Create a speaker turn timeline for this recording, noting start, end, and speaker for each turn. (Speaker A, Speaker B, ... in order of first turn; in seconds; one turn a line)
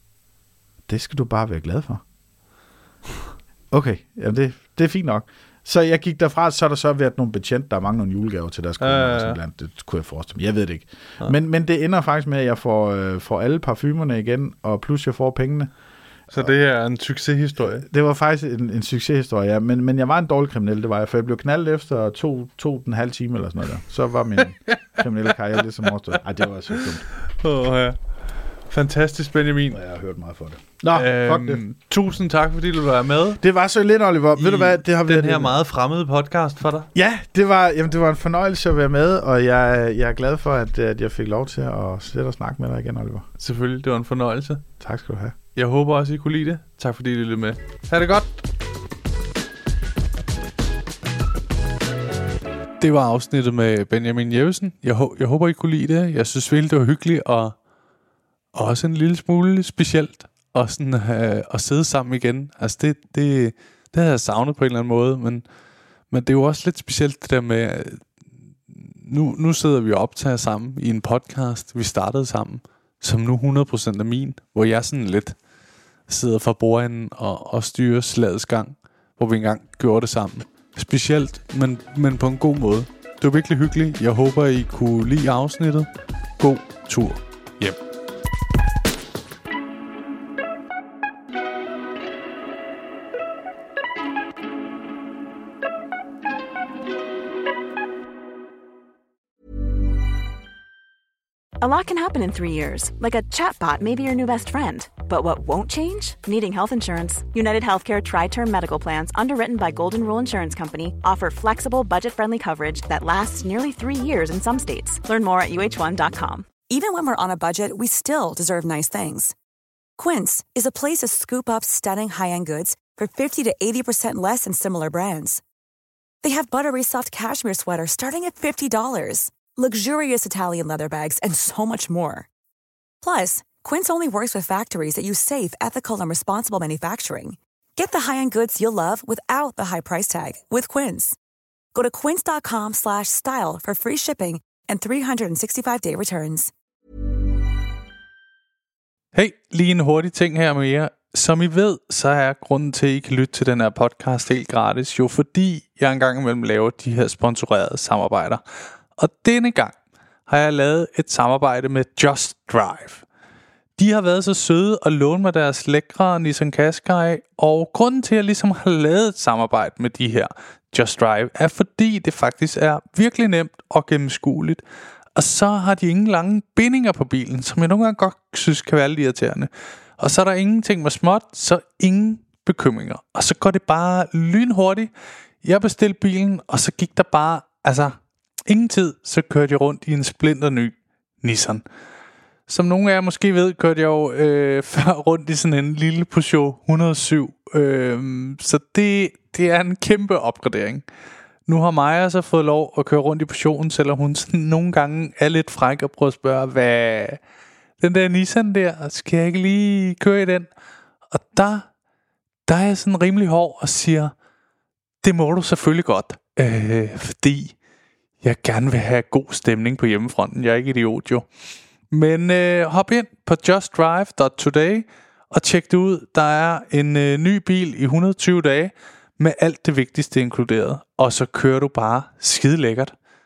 Speaker A: 0.9-2.0
Speaker A: 3.7-15.7
Speaker B: 8.8-9.4
Speaker B: 16.3-17.8
Speaker A: 17.6-27.0
Speaker B: 27.4-28.0
Speaker B: 28.7-29.8
Speaker A: 29.7-31.6
Speaker B: 30.9-33.4
Speaker A: 33.4-35.5
Speaker B: 34.4-36.9
Speaker A: 36.9-43.3
Speaker B: 43.4-44.6
Speaker A: 44.8-45.4
Speaker B: 45.5-48.3
Speaker C: 52.8-57.5
Speaker C: 58.5-65.4
Speaker C: 66.1-68.0
Speaker C: 68.7-75.3
Speaker C: 76.1-87.8
Speaker D: 101.6-116.5
Speaker E: 116.7-119.3
Speaker E: 120.0-125.4
Speaker E: 126.2-132.3
Speaker E: 133.0-141.2
Speaker E: 141.7-146.5
Speaker C: 149.1-158.4
Speaker C: 159.0-159.7
Speaker C: 160.3-163.0
Speaker C: 163.8-174.6
Speaker C: 175.2-179.5
Speaker C: 180.0-184.9
Speaker C: 185.4-187.9
Speaker C: 188.5-191.6
Speaker C: 192.5-200.8
Speaker C: 201.5-207.2
Speaker C: 207.8-210.5
Speaker C: 211.1-211.6
Speaker C: 212.5-214.1
Speaker C: 215.0-217.5
Speaker C: 218.2-221.2
Speaker C: 221.9-232.9